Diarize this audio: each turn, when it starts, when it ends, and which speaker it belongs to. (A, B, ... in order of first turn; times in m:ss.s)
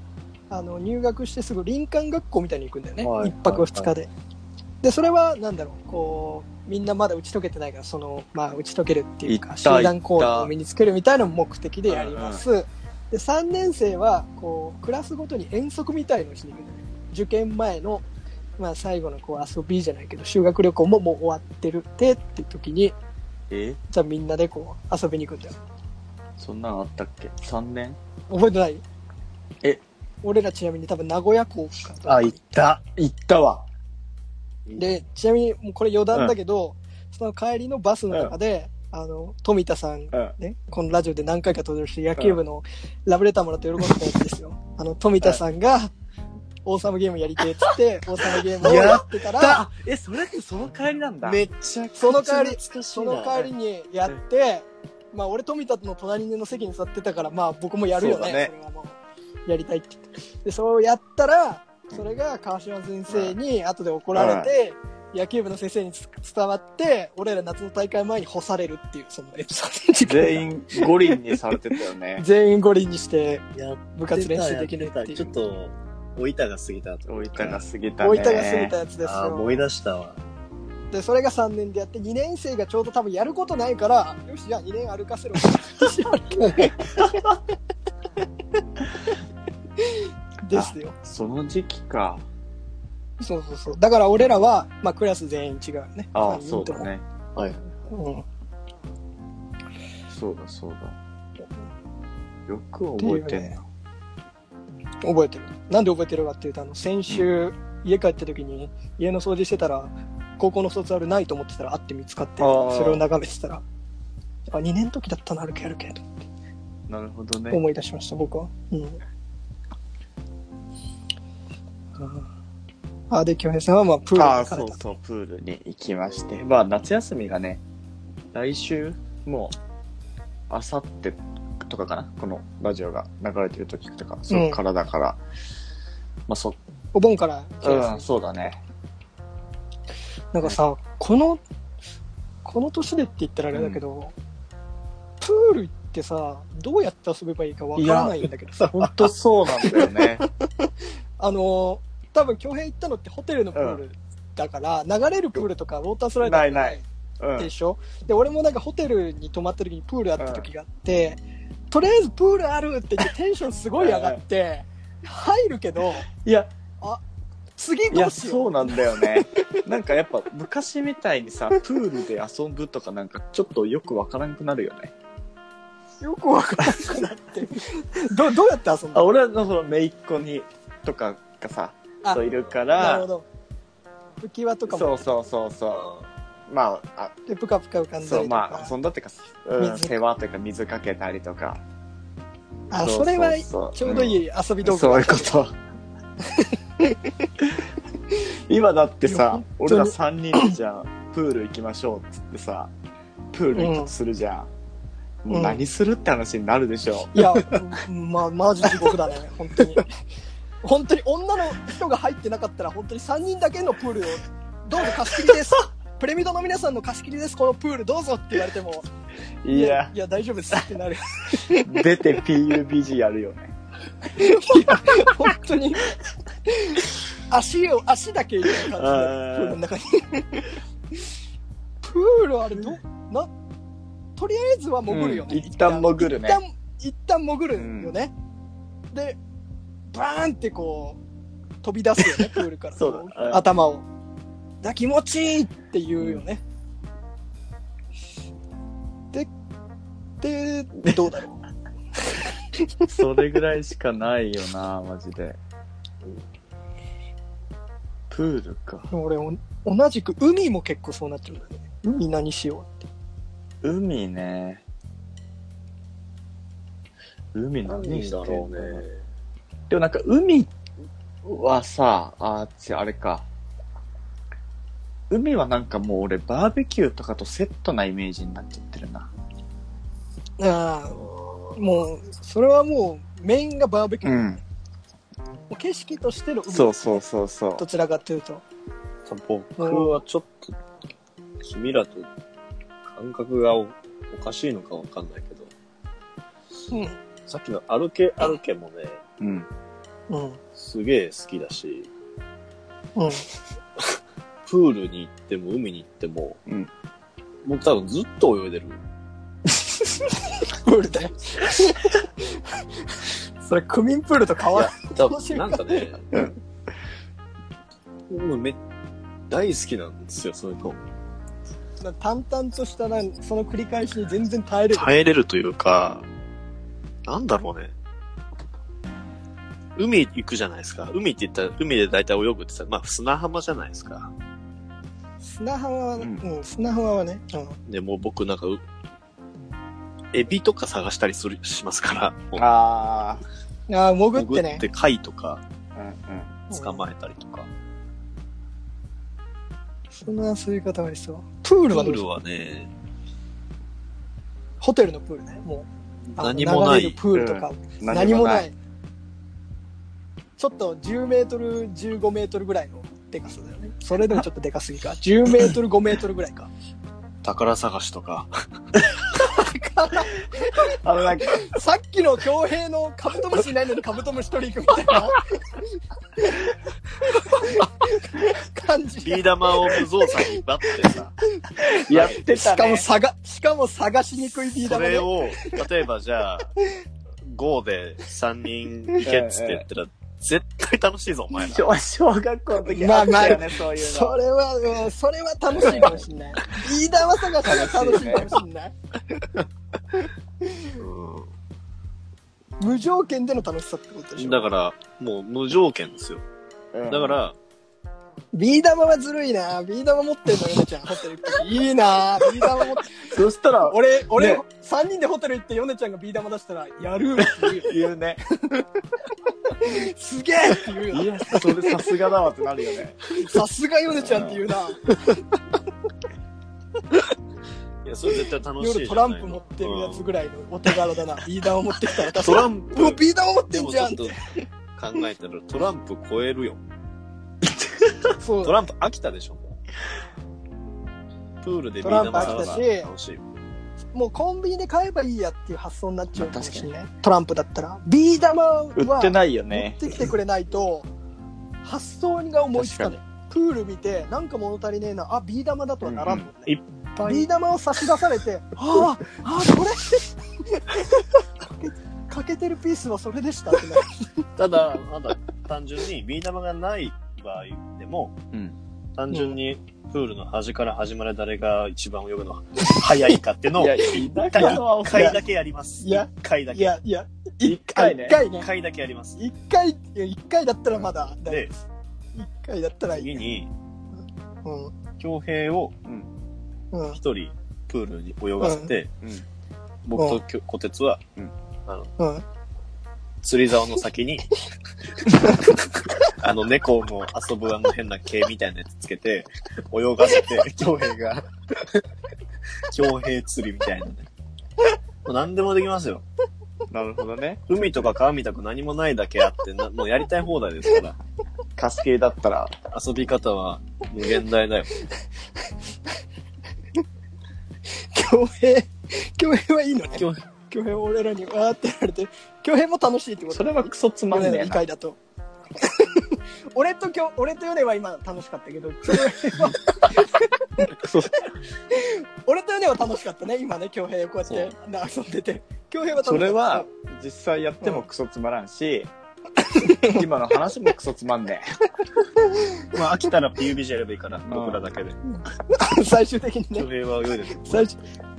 0:00.5-0:04.1 A
0:03.0-0:03.9 B
0:04.8-0:18.0 A
0:09.2-0:10.5 B
0:11.9-0:12.4 B
0:18.6-0:22.9 A
0:23.5-0:23.8 B
0:23.9-0:25.6 A
0:26.4-0:28.0 B
0:28.3-0:28.8 A
0:30.2-0:32.4 A
0:32.1-0:32.8 C
0:32.9-0:33.7 B
0:34.8-0:45.9 A
0:46.6-0:49.6 A
0:48.4-0:51.4 B
0:48.6-0:49.0 C
0:51.2-0:53.5 C
0:52.0-1:11.5 A
0:57.9-0:58.5 B
1:03.1-1:03.4 B
1:04.1-1:04.5 B
1:10.0-1:12.2 B
1:12.2-1:15.2 A
1:13.5-1:17.6 C
1:17.1-1:18.8 B
1:18.0-1:19.6 A
1:19.0-1:20.2 C
1:20.9-1:26.7 A
1:26.6-1:27.3 B
1:30.4-1:30.9 A
1:30.5-1:32.2 B
1:33.2-1:36.9 A
1:36.1-1:37.0 B
1:37.9-1:38.2 A
1:40.1-1:41.0 B
1:42.5-1:43.6 B
1:43.0-1:43.6 A
1:45.0-1:53.6 A
1:52.4-1:53.0 B
1:54.5-1:56.1 A
1:56.9-1:57.6 B
1:57.5-1:59.0 A
2:02.0-2:02.3 A
2:03.1-2:04.8 A
2:04.2-2:07.6 B
2:08.3-2:09.5 B
2:10.5-2:15.2 B
2:14.3-2:14.6 A
2:16.3-2:16.6 B
2:16.9-2:18.1 A
2:17.6-2:18.6 B
2:20.3-2:21.4 A
2:22.4-2:24.1 A
2:23.5-2:23.8 B
2:25.2-2:29.0 A
2:27.8-2:30.2 B
2:29.7-2:30.0 A
2:31.2-2:36.8 A
2:33.5-2:33.8 B
2:36.2-2:37.5 B
2:37.4-2:41.2 A
2:40.2-2:40.5 B
2:41.7-2:46.1 A
2:43.8-2:44.2 B
2:46.2-2:46.5 B
2:47.6-2:48.6 A
2:47.9-2:54.9 B
2:56.0-2:59.1 A
2:58.9-3:03.1 B
3:02.8-3:03.2 A
3:04.2-3:05.0 A
3:04.7-3:05.9 B
3:06.5-3:07.1 B
3:07.2-3:08.7 A
3:08.0-3:11.6 B
3:09.6-3:10.0 A
3:12.7-3:15.4 A
3:12.8-3:15.6 B
3:17.4-3:17.6 B
3:18.3-3:22.7 B
3:19.0-3:20.5 A
3:23.3-3:24.5 B
3:23.5-3:23.9 A
3:25.2-3:27.5 B
3:25.3-3:25.6 A
3:27.1-3:29.8 A
3:30.6-3:38.9 A
3:39.4-3:39.9 B
3:39.5-3:41.7 A
3:41.3-3:43.5 B
3:44.2-3:45.9 A
3:44.2-3:45.2 B
3:46.5-3:50.4 A
3:48.6-3:49.6 B
3:51.8-3:53.3 A
3:54.2-3:58.1 A
3:54.9-3:56.4 B
3:57.6-3:58.0 B
3:58.9-3:59.2 A
3:59.9-4:01.0 A
4:01.6-4:03.8 A
4:02.2-4:03.5 B
4:04.6-4:06.4 A
4:10.2-4:11.4 A
4:12.9-4:15.4 B
4:18.1-4:18.9 B
4:18.9-4:22.8 A
4:23.6-4:24.6 B
4:27.3-4:28.8 B
4:27.6-4:29.0 C
4:29.7-4:30.5 B
4:31.2-4:33.3 B
4:35.1-4:39.1 B
4:40.4-4:44.4 A
4:44.0-4:44.4 B
4:45.5-4:46.9 A
4:46.5-4:47.6 B
4:47.6-4:48.4 A
4:49.0-4:50.5 C
4:49.6-4:50.0 A
4:51.4-4:52.1 C
4:52.8-4:55.5 C
4:56.7-4:57.0 A
4:57.3-4:59.0 C
4:59.2-4:59.5 B
5:00.1-5:00.4 A
5:00.6-5:01.9 C
5:03.0-5:03.2 A
5:04.4-5:06.4 C
5:07.4-5:08.8 C
5:10.0-5:12.0 A
5:13.4-5:15.8 A
5:14.5-5:16.2 C
5:18.1-5:18.6 C
5:19.3-5:20.8 C
5:21.8-5:24.9 A
5:24.7-5:26.0 C
5:27.0-5:27.7 C
5:29.8-5:34.1 C
5:35.2-5:37.6 A
5:37.7-5:38.6 C
5:40.1-5:42.5 C
5:42.4-5:43.2 B
5:43.7-5:44.6 A
5:44.1-5:45.4 C
5:45.7-5:46.4 B
5:46.5-5:47.5 C
5:49.9-5:52.0 A
5:51.7-5:52.7 C
5:54.6-5:58.5 A
5:56.1-5:57.0 C
5:57.1-5:58.5 B
6:00.4-6:06.5 A
6:07.2-6:08.3 C
6:09.2-6:10.8 A
6:10.7-6:11.5 B
6:11.3-6:15.6 A
6:17.0-6:19.8 A
6:19.0-6:21.1 C
6:21.6-6:25.6 A
6:21.6-6:22.9 B
6:24.6-6:26.5 C
6:27.2-6:31.7 C
6:29.0-6:29.6 B
6:31.4-6:34.2 B
6:32.7-6:38.7 A
6:35.6-6:36.0 B
6:35.6-6:36.0 C
6:37.4-6:38.4 B
6:40.8-6:41.3 C
6:42.6-6:44.5 A
6:44.2-6:46.2 C
6:46.7-6:47.2 B
6:46.9-6:47.4 C
6:48.3-6:53.1 A
6:53.0-6:54.4 B
6:53.6-6:57.7 A
6:57.2-6:58.6 B
6:59.6-7:01.6 A
7:00.9-7:03.0 B
7:03.1-7:04.9 A
7:03.9-7:04.4 B
7:07.8-7:10.1 C
7:08.6-7:14.1 A
7:12.1-7:13.0 C
7:13.5-7:14.2 C
7:14.8-7:16.6 C
7:17.5-7:17.9 B
7:18.2-7:18.6 A
7:18.4-7:19.6 C
7:21.4-7:23.2 C
7:21.8-7:22.9 A
7:22.1-7:22.6 B
7:23.9-7:30.9 A
7:26.2-7:26.7 B
7:28.8-7:29.9 B
7:31.6-7:44.2 A
7:32.6-7:33.0 B
7:35.8-7:36.3 B
7:36.4-7:37.3 C
7:44.4-7:48.2 C
7:48.3-7:48.6 B
7:49.0-7:56.8 C
7:53.6-7:55.2 B
7:54.4-7:55.2 A
7:55.8-7:58.5 A
7:57.4-7:58.2 B
7:58.3-7:59.2 C
7:59.2-8:01.6 A
8:01.1-8:01.5 C
8:02.1-8:03.2 A
8:02.9-8:03.5 C
8:04.4-8:04.7 A
8:05.0-8:05.7 C
8:05.8-8:06.1 B
8:06.7-8:07.0 A
8:06.9-8:08.9 C
8:08.4-8:08.7 A
8:09.8-8:11.0 C
8:10.0-8:10.2 A
8:11.7-8:11.9 C
8:12.0-8:12.2 A
8:13.2-8:14.3 C
8:16.1-8:21.8 C
8:22.7-8:24.1 C
8:25.0-8:26.0 C
8:26.7-8:27.9 B
8:27.5-8:31.0 C
8:31.6-8:32.5 B
8:32.7-8:34.8 C
8:37.8-8:45.0 A
8:39.9-8:40.2 C
8:43.3-8:44.6 B
8:45.6-8:50.8 A
8:50.6-8:51.1 B
8:51.7-8:56.7 A
8:56.0-8:58.9 B
8:59.6-9:00.0 A
8:59.7-9:01.6 B
9:02.7-9:05.0 C
9:04.3-9:04.6 B
9:05.5-9:06.7 A
9:06.5-9:07.7 C
9:07.4-9:07.8 A